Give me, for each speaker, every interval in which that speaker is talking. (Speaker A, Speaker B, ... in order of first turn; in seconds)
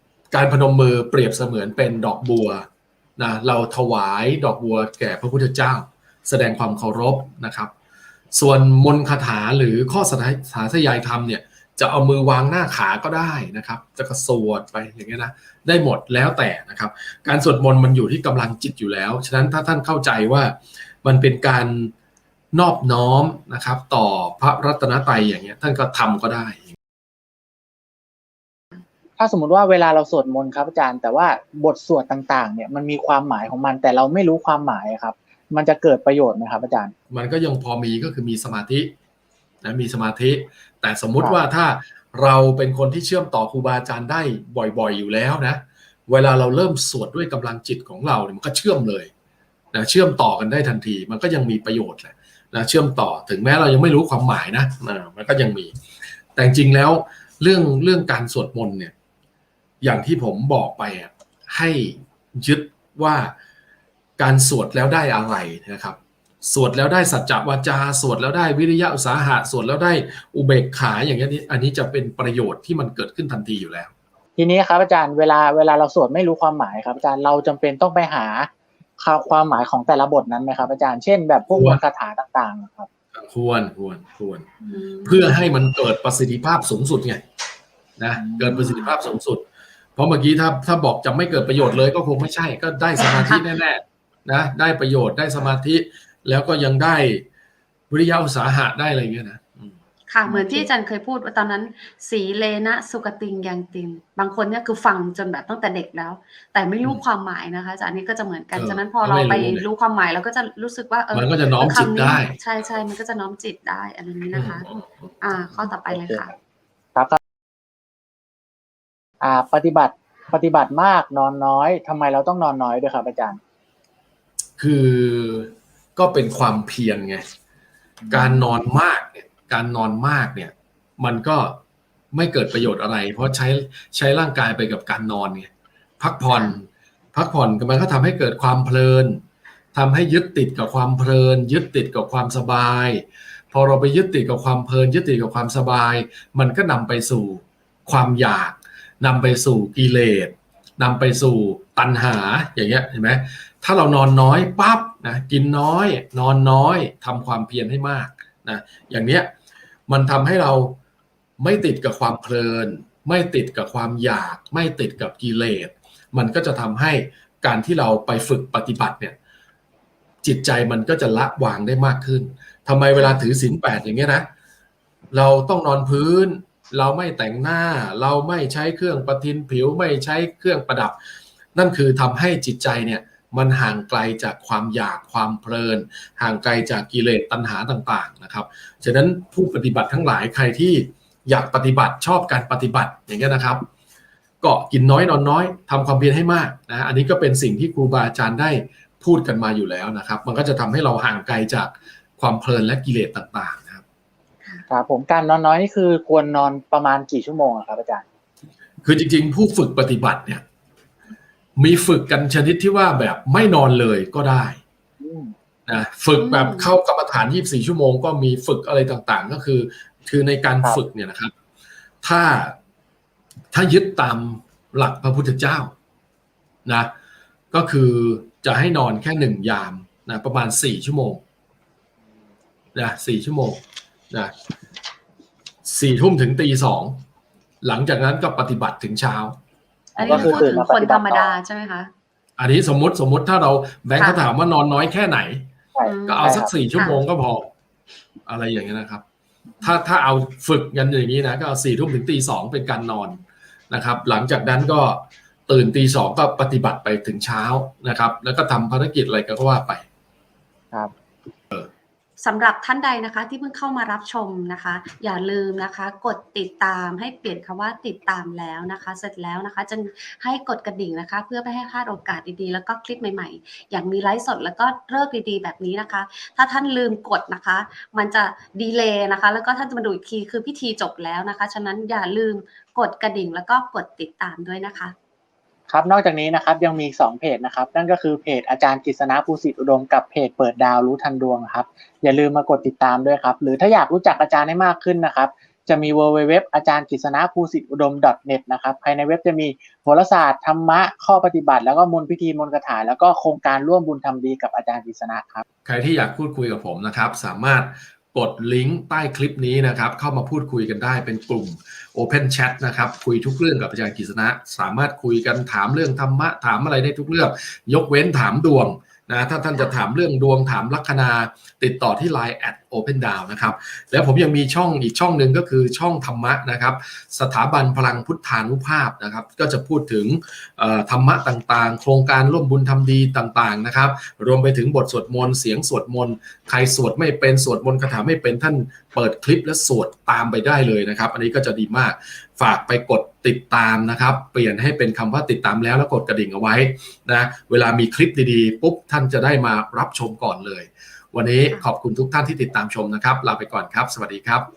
Speaker A: 0.3-2.6, 3.2-7.7, 8.3-21.9, 22.5-26.8, 37.1-38.9, 39.6-49.1, 49.7-55.7, 56.4-58.9, 59.8-63.4, 64.2-73.9, 81.5-81.8, 83.1-84.5, 85.0-87.2, 88.0-89.4, 90.0-97.3, 97.9-99.8, 108.5-109.7, 111.1-112.4, 114.3-115.1, 124.6-127.2, 128.1-131.6, 132.1-139.2, 139.7-159.3, 159.9-160.8, 161.4-169.2, 170.2-174.3, 175.1-181.0, 181.6-193.7, 194.4-203.8, 208.8-210.4, 211.6-214.6, 215.7-221.3, 222.0-222.6, 223.5-225.7, 226.7-226.9, 227.5-231.2, 232.8-234.3, 235.7-237.0, 237.6-239.4, 240.0-240.5, 242.4-245.5, 246.1-247.5, 248.3-249.0, 249.6-259.9, 305.6-354.5
Speaker B: 29.2-36.9, 74.4-82.9, 88.2-88.7, 100.3-100.7, 115.9-116.2, 119.2-123.4, 128.0-128.3, 204.7-208.0, 215.0-215.3, 240.0-241.4, 245.8-246.5, 285.7-305.4
Speaker C: 84.7-85.3, 93.0-93.5, 100.1-114.7, 115.2-116.4, 136.3-136.6, 172.9-173.2, 216.2-216.7, 240.0-241.9, 244.0-244.2, 245.8-247.0, 262.2-284.9